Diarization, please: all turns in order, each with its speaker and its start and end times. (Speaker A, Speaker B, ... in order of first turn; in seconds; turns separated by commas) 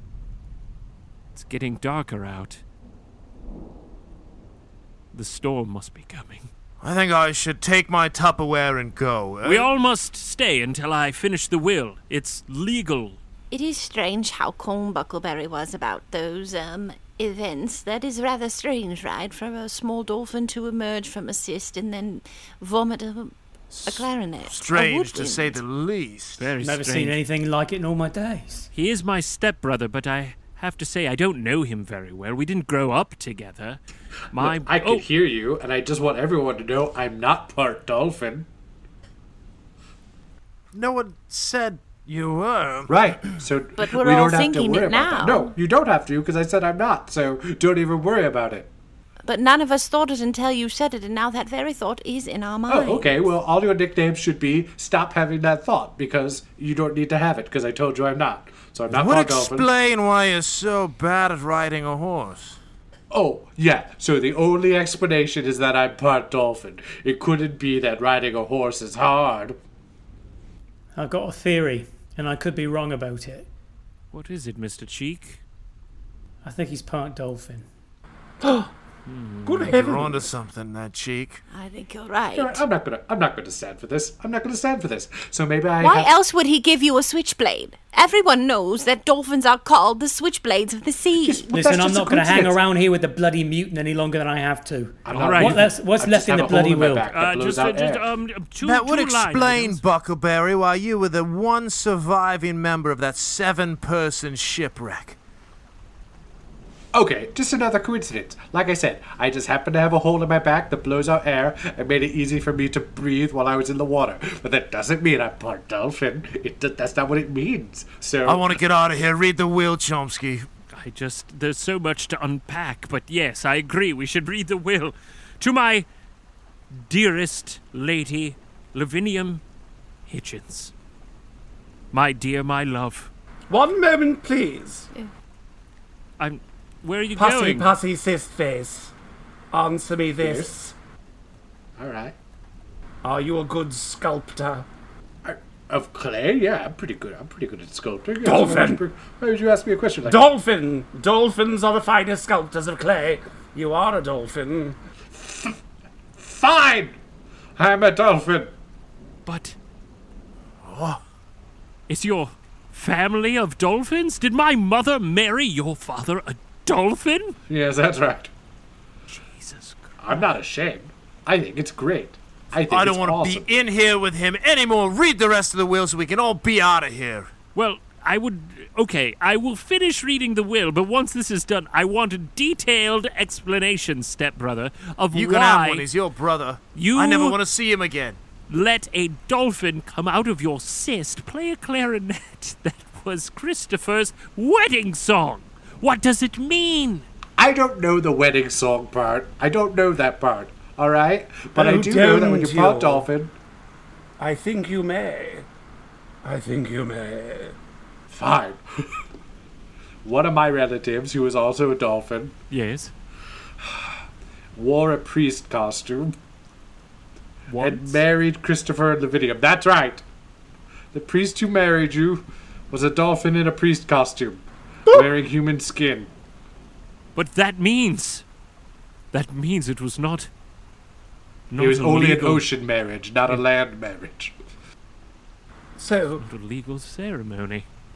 Speaker A: 1.3-2.6, Speaker A: 5.1-6.5, Speaker B: 6.8-9.7, Speaker A: 9.4-13.2, Speaker C: 13.5-23.3, Speaker B: 23.7-26.5, Speaker C: 23.9-25.6, Speaker A: 26.4-27.2, Speaker D: 26.6-28.7, Speaker A: 28.7-33.8, Speaker A: 34.3-35.0, Speaker E: 34.4-38.5, Speaker B: 40.7-43.0, Speaker E: 42.9-48.7, Speaker C: 43.8-45.5, Speaker C: 49.2-53.1, Speaker E: 52.7-59.7, Speaker B: 58.9-62.6, Speaker E: 63.1-69.6, Speaker D: 71.0-73.5, Speaker A: 74.1-75.4, Speaker D: 76.4-77.7, Speaker F: 78.4-78.7, Speaker A: 79.1-79.8, Speaker F: 79.5-80.4, Speaker B: 79.7-81.4, Speaker C: 81.5-82.6, Speaker E: 82.3-86.1, Speaker C: 85.8-91.5, Speaker E: 91.2-92.6, Speaker D: 91.5-97.1, Speaker E: 95.0-98.1, Speaker A: 95.1-95.7, Speaker A: 97.1-99.8, Speaker B: 98.6-105.2, Speaker E: 106.9-118.6, Speaker B: 118.2-120.5, Speaker A: 120.7-125.9, Speaker A: 126.7-129.4, Speaker A: 130.1-130.7, Speaker A: 131.9-133.1, Speaker F: 133.5-134.9, Speaker A: 136.2-137.7, Speaker F: 137.2-138.9, Speaker F: 139.5-140.7, Speaker E: 140.2-140.5, Speaker E: 141.8-142.2, Speaker F: 143.0-144.7, Speaker E: 145.2-150.2, Speaker F: 148.2-148.8, Speaker F: 150.1-154.8, Speaker E: 155.1-155.6, Speaker E: 156.2-157.0, Speaker E: 157.6-158.5, Speaker A: 159.3-159.6, Speaker B: 160.6-161.0, Speaker A: 161.9-167.4, Speaker E: 167.5-168.3, Speaker A: 169.1-170.3, Speaker E: 170.0-173.5, Speaker B: 172.7-177.3, Speaker A: 177.6-185.9, Speaker B: 185.1-188.2, Speaker A: 186.8-187.4, Speaker A: 188.5-197.1, Speaker E: 197.4-203.3, Speaker F: 201.6-203.1, Speaker F: 204.2-205.5, Speaker F: 206.2-207.6, Speaker E: 208.1-208.8, Speaker E: 210.0-212.3, Speaker A: 212.5-212.9, Speaker E: 213.6-214.0, Speaker E: 214.6-216.2, Speaker A: 217.5-218.0, Speaker E: 217.6-220.0, Speaker E: 220.9-226.1, Speaker A: 227.2-228.2, Speaker A: 229.1-230.3, Speaker A: 231.5-232.5, Speaker E: 231.6-234.3, Speaker F: 235.8-236.2, Speaker A: 236.2-237.7